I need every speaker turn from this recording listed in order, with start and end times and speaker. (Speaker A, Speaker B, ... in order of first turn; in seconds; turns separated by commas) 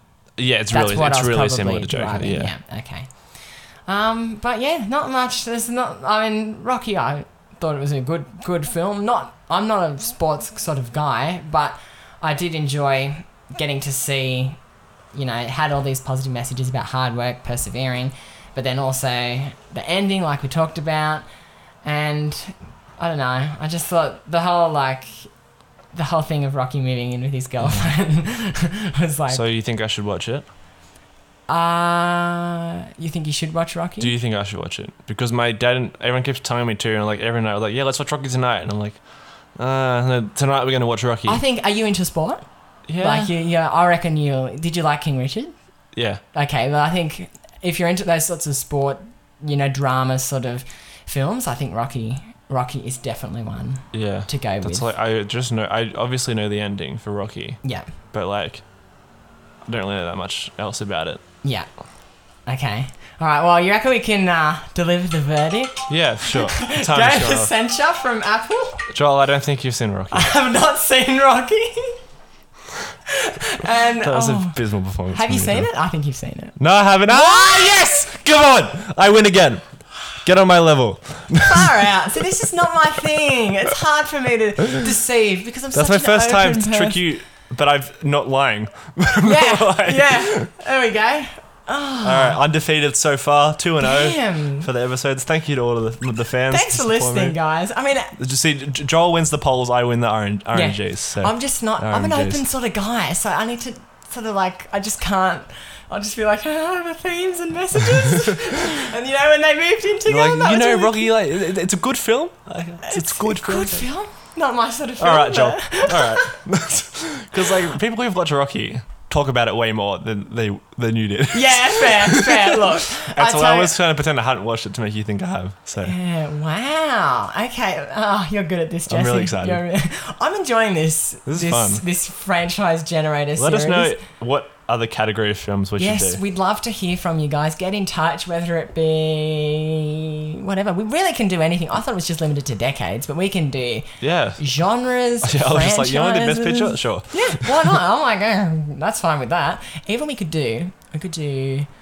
Speaker A: 0.4-2.5, Speaker B: 0.7-14.6, Speaker B: 15.1-21.2, Speaker B: 21.8-25.4, Speaker B: 25.9-29.4, Speaker A: 27.6-27.9, Speaker A: 29.3-30.5, Speaker B: 31.5-34.1, Speaker A: 34.0-41.4, Speaker B: 41.2-45.5, Speaker A: 42.9-43.3, Speaker A: 45.9-46.2, Speaker B: 46.2-54.9, Speaker A: 53.9-58.7, Speaker B: 57.6-57.9, Speaker A: 59.7-61.2, Speaker B: 61.4-68.9, Speaker A: 65.9-67.5, Speaker A: 68.9-70.3, Speaker B: 70.1-72.0, Speaker B: 73.1-77.8, Speaker A: 74.0-75.7, Speaker A: 76.6-81.6, Speaker B: 81.3-87.1, Speaker A: 85.7-90.5, Speaker B: 89.2-92.4, Speaker A: 92.0-97.4, Speaker B: 93.8-94.7, Speaker B: 96.5-98.1, Speaker A: 98.1-102.4, Speaker B: 100.5-111.1, Speaker A: 110.1-113.9, Speaker B: 112.8-116.3, Speaker A: 115.0-126.0, Speaker B: 121.3-123.7, Speaker B: 125.8-134.0, Speaker A: 128.9-129.6, Speaker A: 131.3-131.8, Speaker A: 133.4-136.2, Speaker B: 135.8-151.7, Speaker A: 144.0-144.4, Speaker A: 145.2-147.5